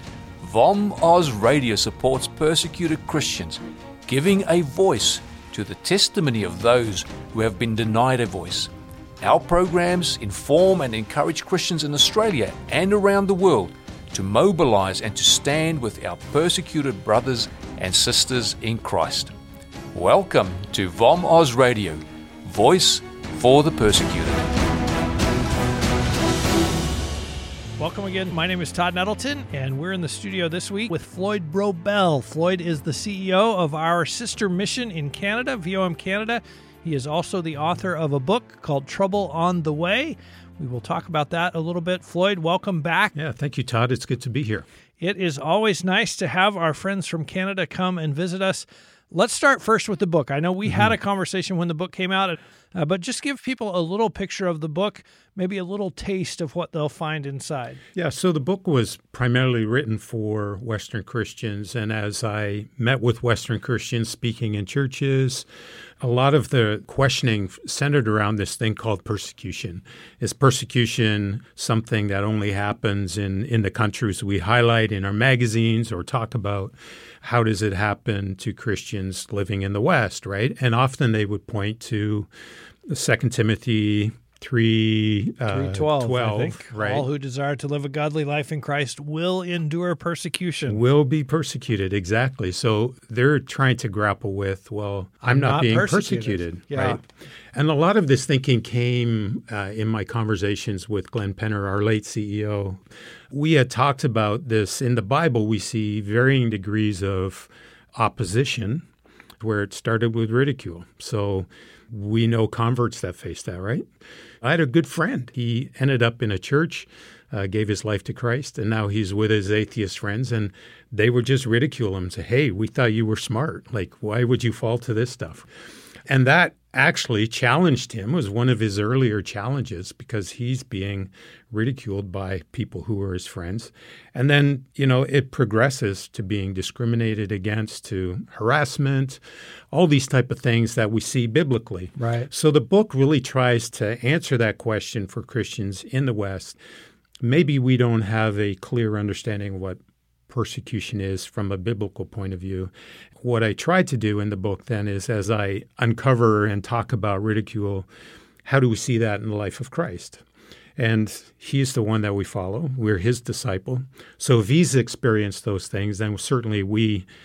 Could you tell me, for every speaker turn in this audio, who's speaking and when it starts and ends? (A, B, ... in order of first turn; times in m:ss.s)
0:00.4-0:19.3 A
0:19.9-0:24.5 A
0:27.8-0:43.1 B
0:43.2-0:44.7 C
0:45.0-0:57.8 B
0:58.0-1:05.5 C
1:06.0-1:22.3 C
1:22.9-1:27.1 C
1:25.5-1:30.8 B
1:30.7-1:37.0 C
1:35.3-1:37.0 B
1:37.5-1:48.8 C
1:49.4-1:53.9 C
1:54.4-2:05.5 C
2:06.1-2:19.2 C
2:19.7-2:26.6 C
2:22.0-2:22.3 B
2:27.2-2:37.9 C
2:38.4-2:40.2 C
2:40.8-2:47.1 C